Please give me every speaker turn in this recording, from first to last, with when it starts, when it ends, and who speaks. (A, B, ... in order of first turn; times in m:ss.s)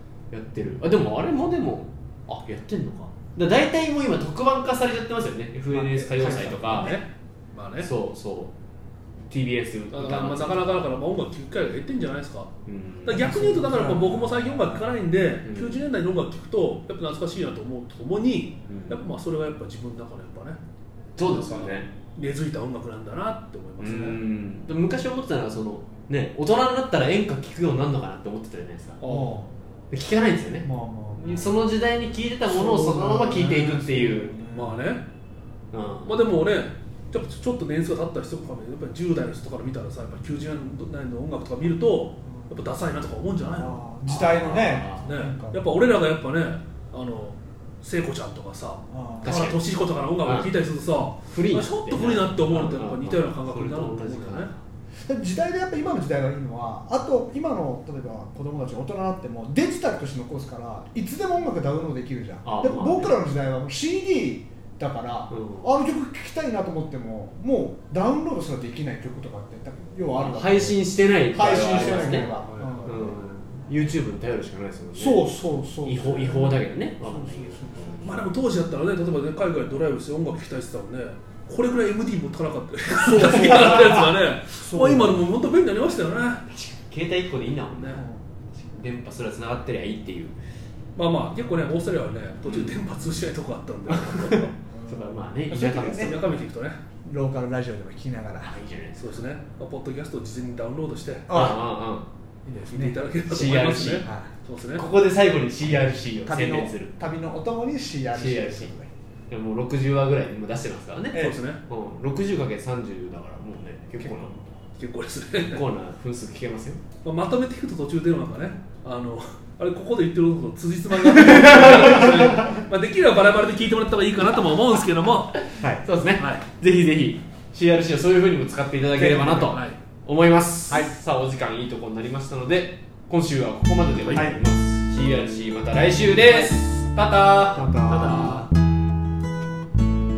0:00.3-0:07.0 A
0:05.7-0:07.0 B
0:06.2-0:07.9 C
0:07.8-0:08.5 A
0:09.3-0:10.8 A
0:09.9-0:12.5 C
0:12.7-0:13.3 A
0:13.1-0:20.6 C
0:13.1-0:15.0 B
0:15.4-0:15.8 A
0:18.7-0:19.0 A
0:21.2-0:21.9 A
0:21.2-0:24.2 C
0:23.8-0:29.0 A
0:29.0-0:29.4 C
0:29.0-0:29.5 B
0:29.9-0:34.4 A
0:30.6-0:31.5 B
0:32.5-0:34.8 B
0:34.5-0:35.1 C
0:35.7-0:36.3 A
0:36.0-0:43.8 C
0:43.5-0:45.6 B
0:44.1-0:45.1 A
0:45.0-0:54.5 C
0:48.9-0:49.5 B
0:49.2-0:49.6 A
0:50.2-0:50.5 A
0:51.3-0:54.6 A
0:55.0-1:13.2 B
1:02.4-1:03.2 A
1:05.3-1:05.7 A
1:10.2-1:15.3 A
1:11.5-1:13.3 C
1:15.0-1:18.1 B
1:15.8-1:18.2 A
1:18.0-1:26.4 C
1:23.2-1:24.0 A
1:23.2-1:24.0 B
1:24.5-1:25.2 B
1:26.5-1:30.4 A
1:27.7-1:28.0 C
1:27.9-1:28.2 B
1:31.0-1:34.5 C
1:32.4-1:32.8 A
1:33.9-1:36.4 A
1:34.7-1:36.2 B
1:35.8-1:36.8 C
1:37.0-1:38.5 B
1:38.4-1:39.2 A
1:39.0-1:41.3 C
1:41.3-1:41.6 B
1:41.3-1:42.1 A
1:42.5-1:44.9 C
1:42.7-1:43.0 B
1:43.3-1:44.1 A
1:44.0-1:44.3 B
1:44.8-1:46.9 A
1:46.2-1:48.9 B
1:48.1-1:48.8 A
1:49.3-1:54.4 A
1:51.1-1:51.6 C
1:54.0-1:54.5 B
1:54.8-1:55.6 C
1:55.4-1:56.8 A
1:57.0-2:05.4 C
2:01.1-2:02.3 A
2:05.5-2:18.5 A
2:06.2-2:06.5 C
2:09.0-2:09.8 C
2:14.1-2:14.4 B
2:17.5-2:18.5 B